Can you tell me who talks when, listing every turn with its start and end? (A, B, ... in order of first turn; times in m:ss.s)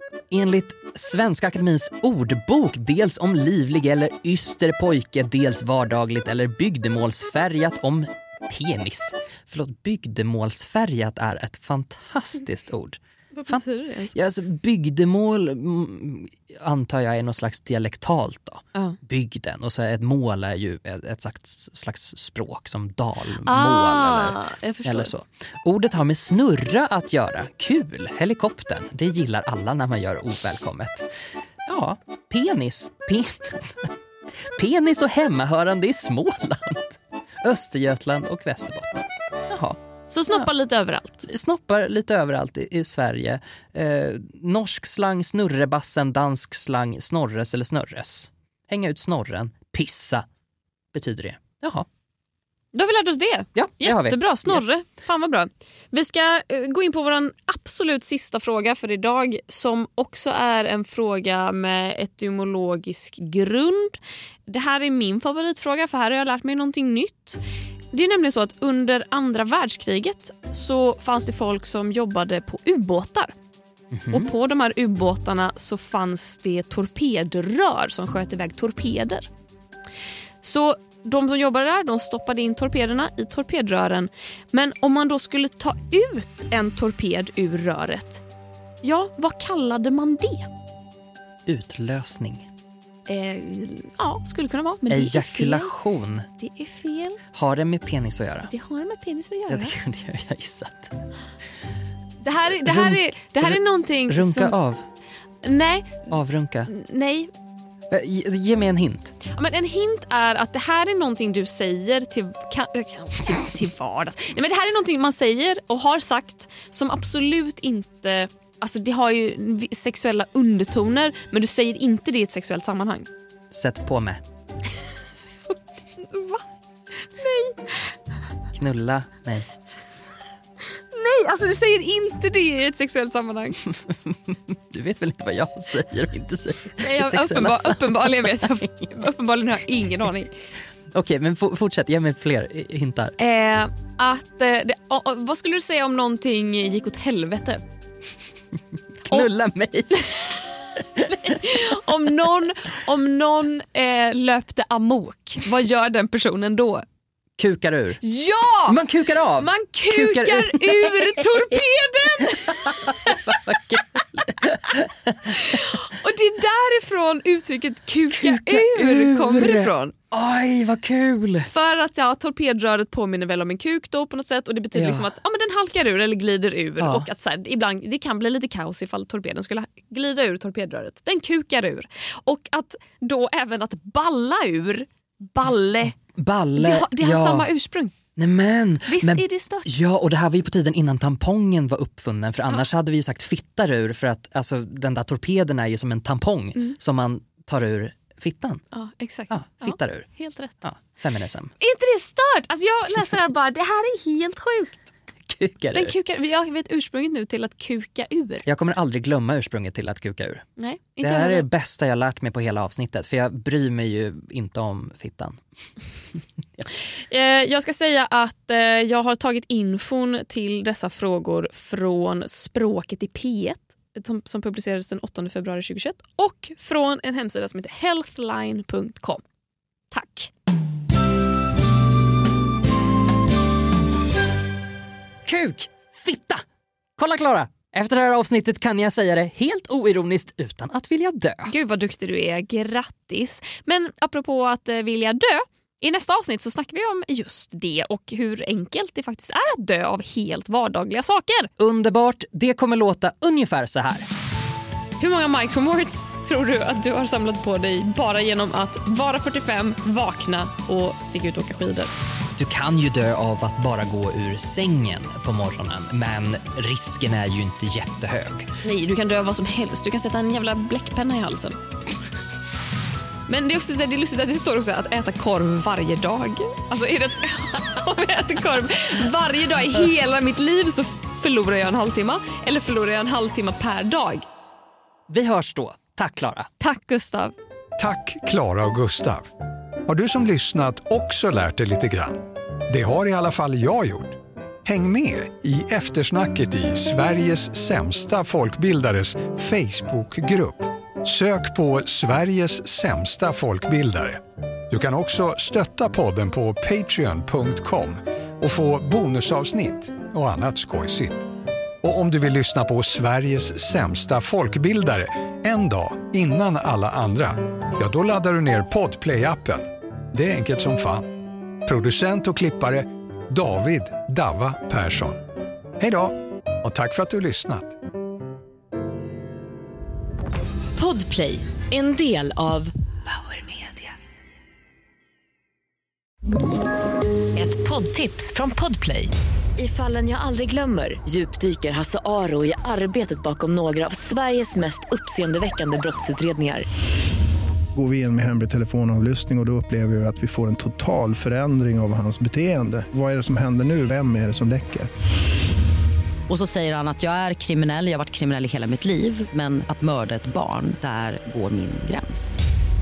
0:00.3-0:39.8 A
0:13.3-0:14.2 B
0:23.5-0:25.1 B
0:40.1-0:41.3 B
0:41.2-0:50.2 A
0:50.9-0:51.9 A
0:52.7-1:07.4 B
0:53.5-0:54.6 A
1:07.9-1:13.3 B
1:13.9-1:14.3 A
1:14.1-1:19.3 B
1:20.4-1:28.2 B
1:28.8-1:30.5 B
1:31.5-1:32.5 A
1:33.1-1:35.7 B
1:34.9-1:36.3 A
1:36.4-1:37.2 B
1:37.3-1:38.5 A
1:38.5-1:39.7 B
1:39.5-1:41.0 A
1:42.2-1:44.5 B
1:42.6-1:44.8 A
1:45.4-1:46.1 B
1:46.1-1:46.7 A
1:46.7-1:47.3 B
1:47.9-1:49.2 A
1:49.3-2:03.1 B
2:03.5-2:04.2 A
2:05.5-2:06.4 B
2:06.9-2:07.9 B
2:08.5-2:09.5 A
2:10.9-2:13.6 B
2:13.7-2:18.6 A
2:16.8-2:20.3 B
2:20.9-2:23.2 A
2:23.2-2:27.6 B
2:29.0-2:30.2 A
2:29.9-2:36.8 B
2:31.0-2:31.4 A
2:37.4-2:38.0 A
2:38.0-2:38.8 B
2:38.7-2:41.6 A
2:39.4-2:43.4 B
2:42.2-2:45.6 A
2:45.3-2:49.9 B
2:48.1-2:51.5 A
2:51.4-3:05.9 B
2:54.7-2:55.1 A
2:56.8-2:57.1 A
3:06.1-3:07.5 A
3:06.6-3:07.9 B
3:08.2-3:18.6 A
3:08.9-3:09.7 B
3:18.7-3:20.6 B
3:19.3-3:20.1 A
3:20.6-3:21.5 A
3:21.6-3:24.9 B
3:25.2-3:25.9 A
3:25.7-3:28.4 B
3:28.4-3:30.5 A
3:30.6-3:31.5 B
3:31.0-3:35.4 A
3:37.1-3:49.2 B
3:49.9-3:50.3 B
3:55.2-3:56.4 A
3:57.0-4:01.5 A
4:01.5-4:11.5 B
4:11.6-4:14.1 A
4:15.0-4:21.9 B
4:22.4-4:28.5 A
4:28.6-4:31.6 B
4:33.3-4:44.2 B
4:45.1-4:46.5 A
4:46.6-4:47.4 B
4:47.8-4:49.3 C
4:49.8-5:11.3 C
5:11.8-5:21.1 C
5:21.6-5:25.2 C
5:25.8-5:27.7 C
5:30.8-5:33.9 D
5:37.4-5:46.7 D
5:47.7-5:54.9 E
5:56.3-6:02.4 F